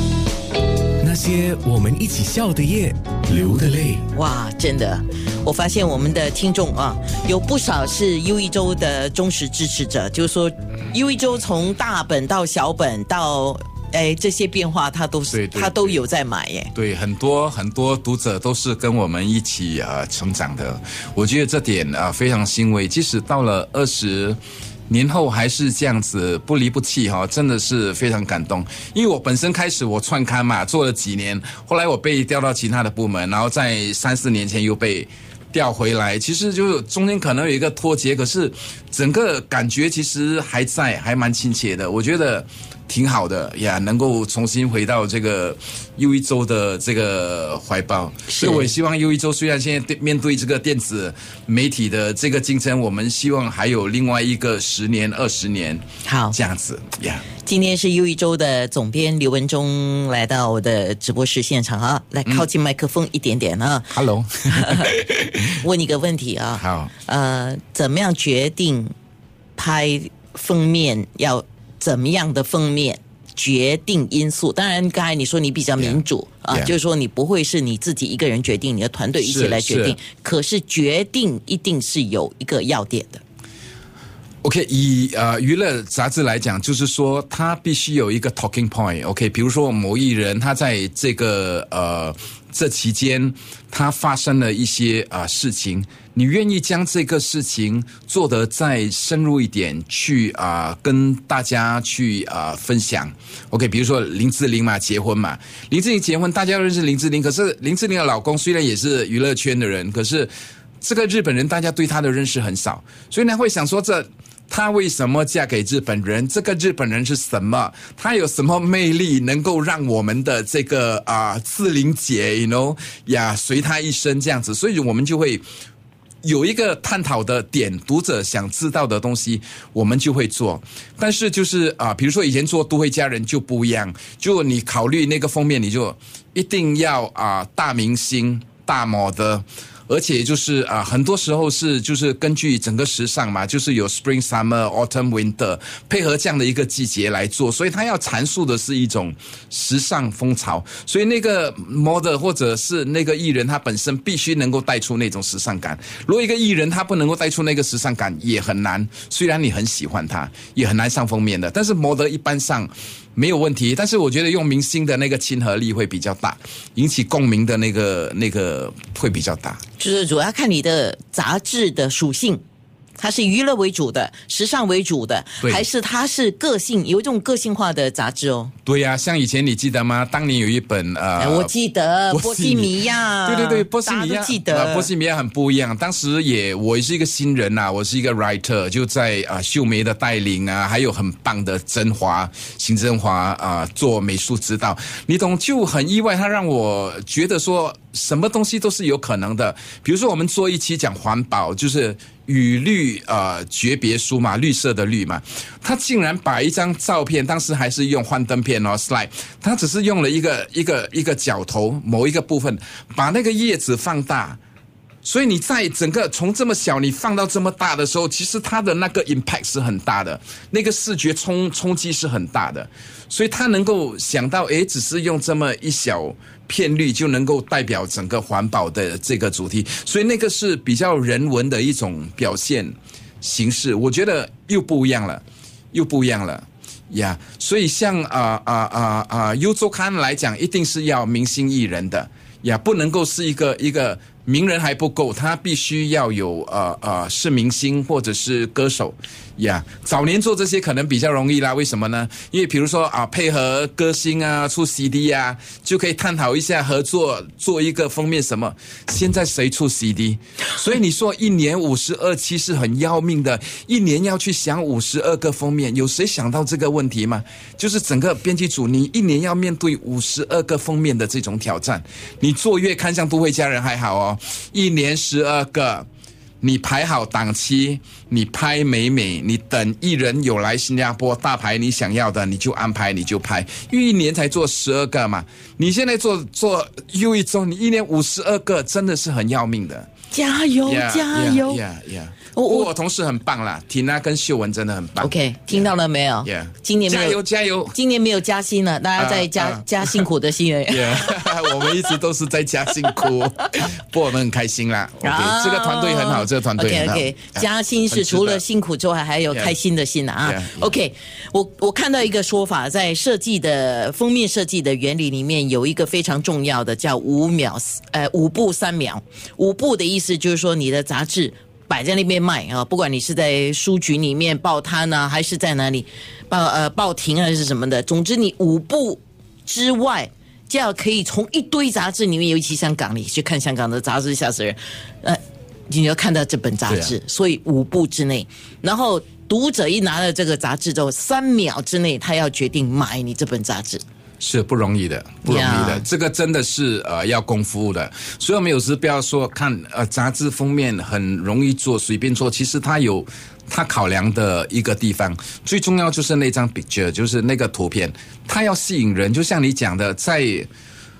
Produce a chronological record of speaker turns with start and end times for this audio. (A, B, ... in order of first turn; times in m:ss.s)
0:01.0-0:04.0 A
0:04.1-0:16.7 B
0:15.3-0:16.0 C
0:16.7-0:57.2 C
0:48.3-0:48.7 B
0:56.0-0:56.4 B
0:57.4-1:08.9 B
1:03.9-1:05.4 C
1:06.6-1:06.9 C
1:09.6-1:23.2 B
1:15.8-1:16.7 C
1:19.2-1:20.0 C
1:24.4-1:50.3 C
1:50.8-2:05.4 C
2:06.2-2:49.6 C
2:49.8-2:52.4 B
2:53.0-2:58.5 B
2:58.6-3:01.5 C
3:01.2-3:04.9 B
3:02.1-3:34.4 C
3:35.0-4:35.8 C
4:36.4-4:49.9 C
4:50.1-4:51.6 B
4:50.6-4:57.8 C
4:52.3-4:52.7 B
4:55.0-4:57.2 B
4:57.7-5:01.8 B
4:59.0-5:00.0 C
5:00.7-5:08.4 C
5:05.0-5:43.8 B
5:09.3-5:09.6 C
5:10.2-5:10.7 C
5:36.7-5:37.0 C
5:44.2-6:00.5 C
5:45.2-5:45.8 B